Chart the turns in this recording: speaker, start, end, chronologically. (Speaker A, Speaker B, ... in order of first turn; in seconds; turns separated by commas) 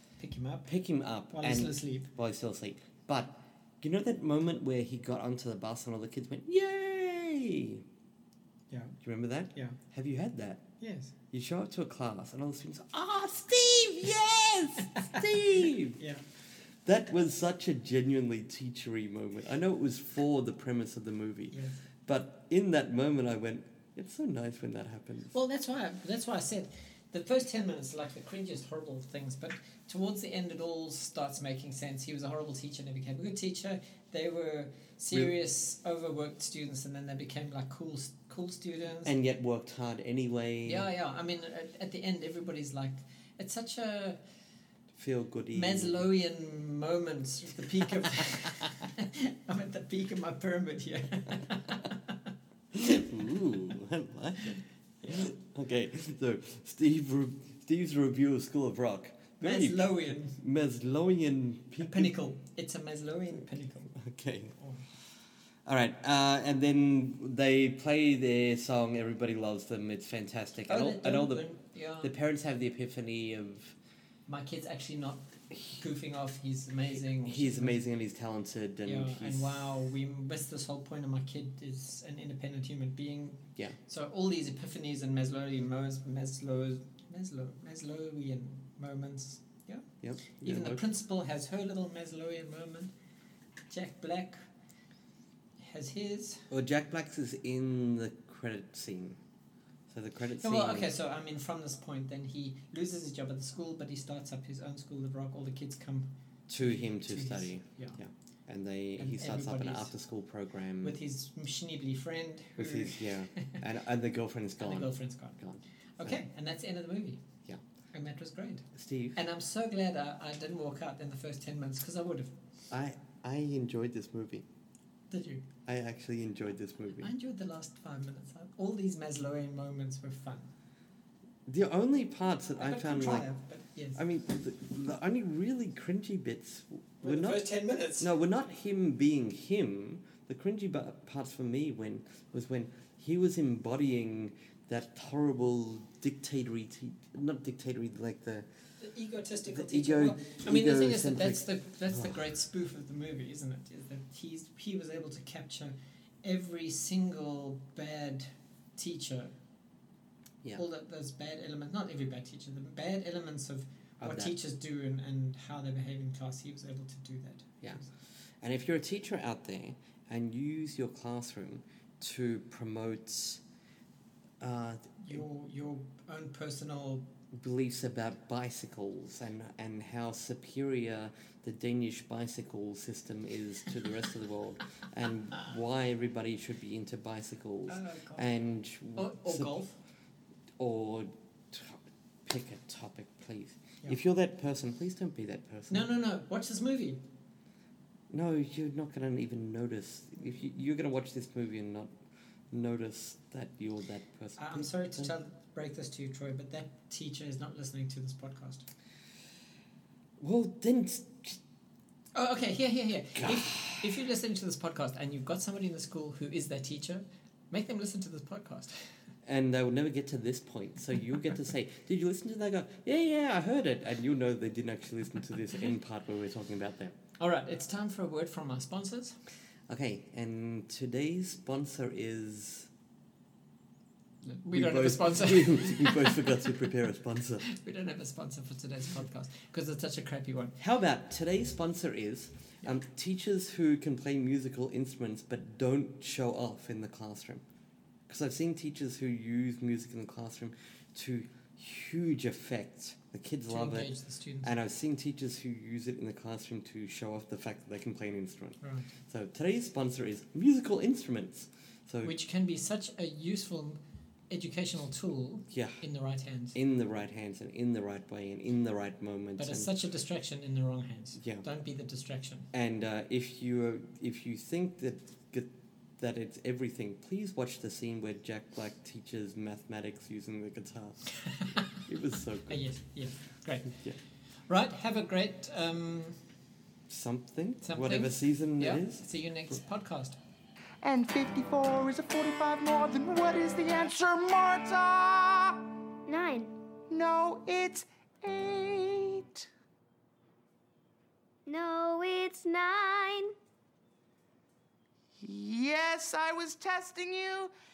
Speaker A: 0.2-0.7, Speaker B: 0.7-7.8, Speaker A: 1.3-2.1, Speaker A: 8.7-8.9, Speaker B: 9.0-10.7, Speaker A: 9.5-9.8, Speaker A: 10.8-11.1, Speaker B: 11.3-16.0, Speaker B: 16.8-25.3, Speaker A: 21.5-21.8, Speaker A: 25.3-39.1, Speaker B: 39.0-40.9, Speaker A: 40.6-44.2, Speaker B: 44.9-46.1, Speaker A: 45.5-52.1, Speaker B: 52.8-62.1, Speaker A: 55.0-55.3, Speaker A: 59.4-60.4, Speaker A: 61.8-64.0, Speaker B: 63.9-64.5, Speaker A: 64.6-64.8, Speaker B: 65.7-71.5, Speaker A: 70.7-72.1, Speaker B: 72.0-73.8, Speaker A: 74.3-77.8, Speaker B: 77.2-79.7, Speaker A: 78.8-92.9, Speaker B: 90.0-90.8, Speaker A: 93.7-94.4, Speaker A: 95.6-96.5, Speaker B: 96.5-99.2, Speaker B: 99.9-100.9, Speaker A: 100.4-106.1, Speaker B: 106.5-111.0, Speaker A: 106.6-108.0, Speaker A: 109.0-109.9, Speaker A: 110.8-113.6, Speaker B: 112.6-116.2, Speaker A: 114.6-115.4, Speaker A: 116.0-117.2, Speaker A: 117.9-122.3, Speaker B: 118.7-119.2, Speaker B: 122.7-124.5, Speaker A: 125.1-125.4, Speaker B: 125.7-127.1, Speaker A: 127.0-130.5, Speaker B: 131.4-133.3, Speaker A: 132.6-134.0, Speaker B: 133.9-148.5, Speaker A: 137.0-138.1, Speaker A: 148.8-159.3, Speaker B: 149.4-152.1, Speaker A: 160.6-167.8, Speaker B: 164.0-164.3, Speaker B: 168.4-173.4, Speaker B: 174.4-175.2, Speaker A: 175.0-177.1, Speaker B: 177.3-189.6, Speaker A: 187.7-188.2, Speaker A: 188.9-189.8, Speaker B: 190.6-195.9, Speaker A: 195.7-197.0, Speaker B: 198.1-201.9, Speaker B: 202.5-205.1, Speaker A: 204.4-208.7, Speaker B: 210.2-211.4, Speaker A: 212.1-218.9, Speaker B: 213.2-213.7, Speaker B: 219.2-227.0, Speaker A: 227.2-229.2, Speaker B: 229.7-232.7, Speaker A: 234.2-236.3, Speaker B: 234.5-237.4, Speaker A: 237.4-240.6, Speaker B: 240.6-247.4, Speaker B: 248.1-262.1, Speaker A: 253.5-254.5, Speaker A: 258.6-258.9, Speaker A: 262.0-263.8, Speaker A: 264.3-266.6, Speaker B: 265.5-265.8, Speaker B: 266.5-269.7, Speaker A: 269.4-272.5, Speaker B: 271.2-271.4, Speaker B: 272.5-281.1, Speaker A: 281.2-281.6, Speaker B: 281.8-282.7, Speaker A: 282.5-283.8, Speaker A: 284.5-286.2, Speaker B: 286.9-289.0, Speaker A: 287.6-290.2, Speaker C: 290.8-295.7, Speaker D: 296.1-296.5, Speaker C: 296.9-299.5, Speaker D: 301.4-303.3, Speaker C: 305.2-307.5